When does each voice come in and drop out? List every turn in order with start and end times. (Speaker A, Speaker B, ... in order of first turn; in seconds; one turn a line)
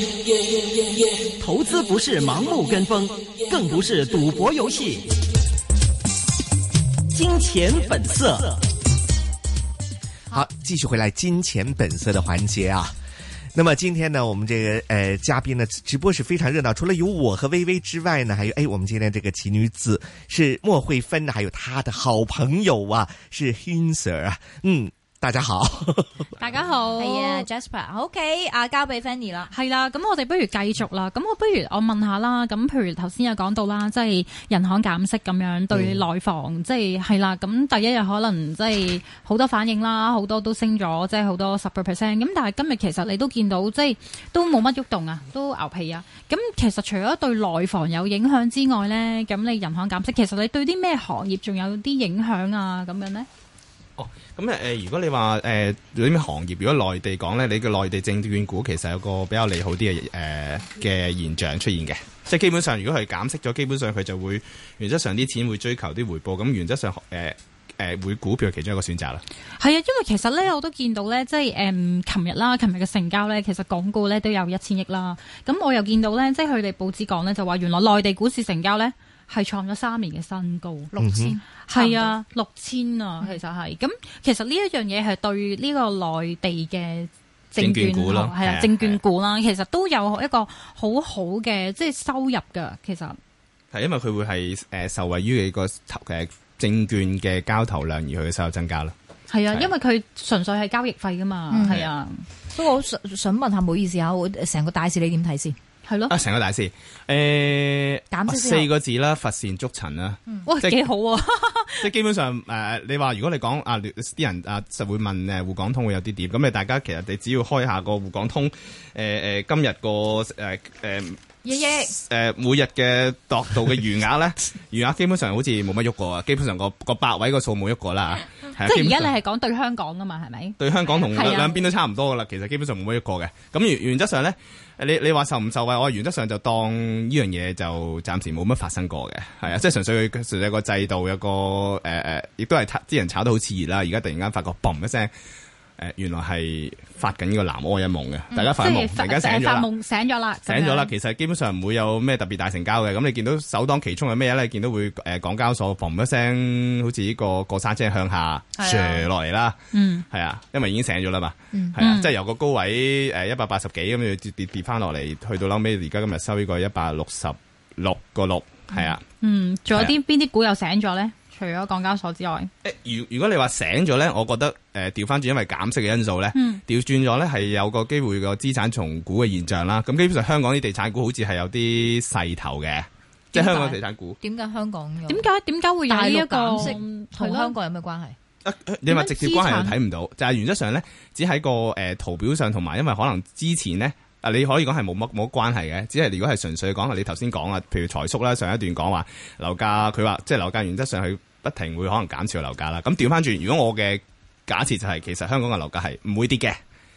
Speaker A: 1.4-5.1
Speaker A: 7.1-8.6
Speaker B: 10.3-12.9
Speaker B: 13.6-26.3
Speaker C: 26.4-27.5
Speaker D: 27.0-29.5
Speaker C: 29.5-53.3
Speaker E: 54.0-69.2
Speaker C: 69.6-80.9
Speaker D: 80.9-82.2
Speaker B: 81.0-81.3
Speaker C: 81.7-93.2
Speaker E: 87.6-89.0
Speaker E: 93.7-98.9
Speaker C: 99.3-102.2
Speaker D: 101.5-101.9
Speaker D: 102.5-105.6
Speaker C: 105.9-106.2
Speaker E: 106.1-110.8
Speaker D: 108.1-108.7
Speaker C: 110.5-111.9
Speaker E: 111.8-129.1
Speaker D: 121.4-122.0
Speaker C: 128.6-130.6
Speaker E: 130.6-145.1
Speaker D: 131.1-131.6
Speaker C: 131.1-131.5
Speaker E: 145.8-149.7
Speaker C: 148.5-150.9
Speaker E: 150.5-159.6
Speaker D: 158.6-159.1
Speaker C: 159.7-160.1
Speaker E: 160.1-169.0
Speaker C: 161.8-162.1
Speaker C: 169.2-172.5
Speaker E: 172.6-184.2
Speaker C: 176.3-176.6
Speaker D: 183.3-185.3
Speaker C: 185.1-187.5
Speaker D: 185.9-188.2
Speaker E: 188.4-206.6
Speaker C: 188.9-189.8